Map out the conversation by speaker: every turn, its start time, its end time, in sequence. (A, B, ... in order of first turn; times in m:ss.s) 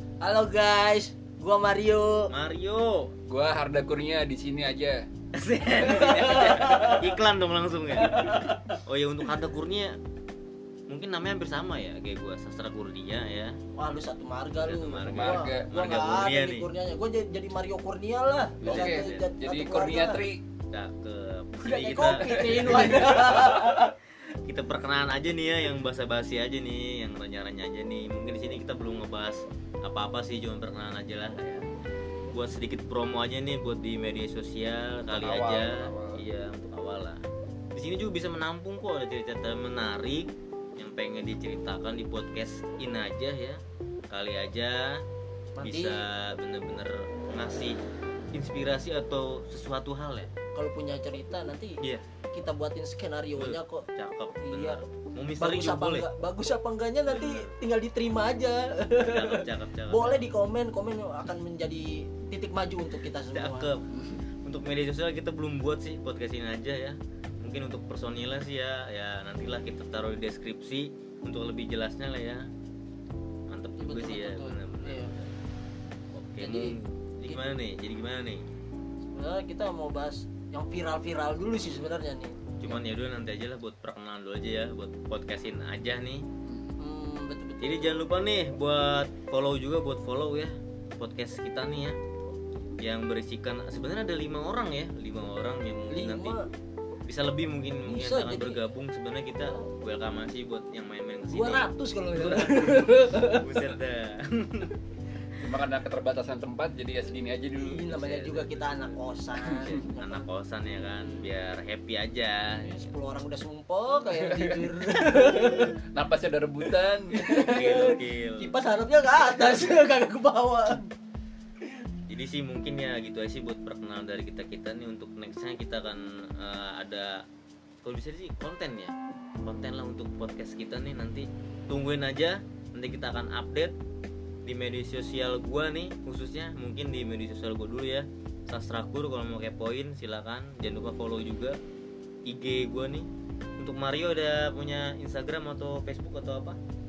0:00.2-0:02.3 A
0:02.3-0:03.1 B
0:03.2-0:05.0 C
0:05.3-0:08.3 B
0:06.0-0:06.9 C
0:06.1-0:07.0 A
0:08.1-0:08.5 A
0:08.8-0:10.0 B
0:10.9-0:13.5 B
0:13.8-0:20.2 A
0:14.6-0:16.7 B
0:15.0-0:15.7 C
0:18.6-0:19.3 B
0:18.6-0:20.4 C
0:20.7-0:23.7 B
0:21.6-0:23.9 A
0:22.2-0:23.4 C
0:24.4-0:31.6 B
0:32.3-0:37.2 B
0:35.1-0:36.2 C
0:37.7-0:43.6 B
0:44.1-0:45.0 B
0:45.6-0:46.0 A
0:45.6-0:47.8 B
0:48.3-0:50.3 B
0:50.5-0:51.8 A
0:52.3-0:54.8 A
0:53.4-0:56.0 B
0:55.4-1:03.7 A
0:57.1-0:57.5 B
0:59.0-1:00.2 B
1:03.3-1:03.8 B
1:04.4-1:12.5 B
1:13.5-1:15.1 B
1:13.8-1:15.2 A
1:16.1-1:18.4 B
1:16.4-1:16.8 A
1:19.1-1:22.8 A
1:22.6-1:26.2 B
1:26.8-1:27.9 A
1:27.6-1:32.0 B
1:32.8-1:36.4 B
1:35.9-1:36.5 A
1:37.0-1:44.7 B
1:37.9-1:38.6 A
1:41.3-1:43.4 A
1:45.4-1:47.8 C
1:47.5-1:50.2 A
1:47.8-1:48.8 B
1:49.6-1:52.9 B
1:52.6-1:55.8 A
1:54.2-1:57.3 C
1:57.1-2:00.9 A
1:57.4-1:58.5 B
2:02.1-2:07.2 B
2:07.8-2:13.7 B
2:14.4-2:21.6 B
2:22.3-2:26.6 B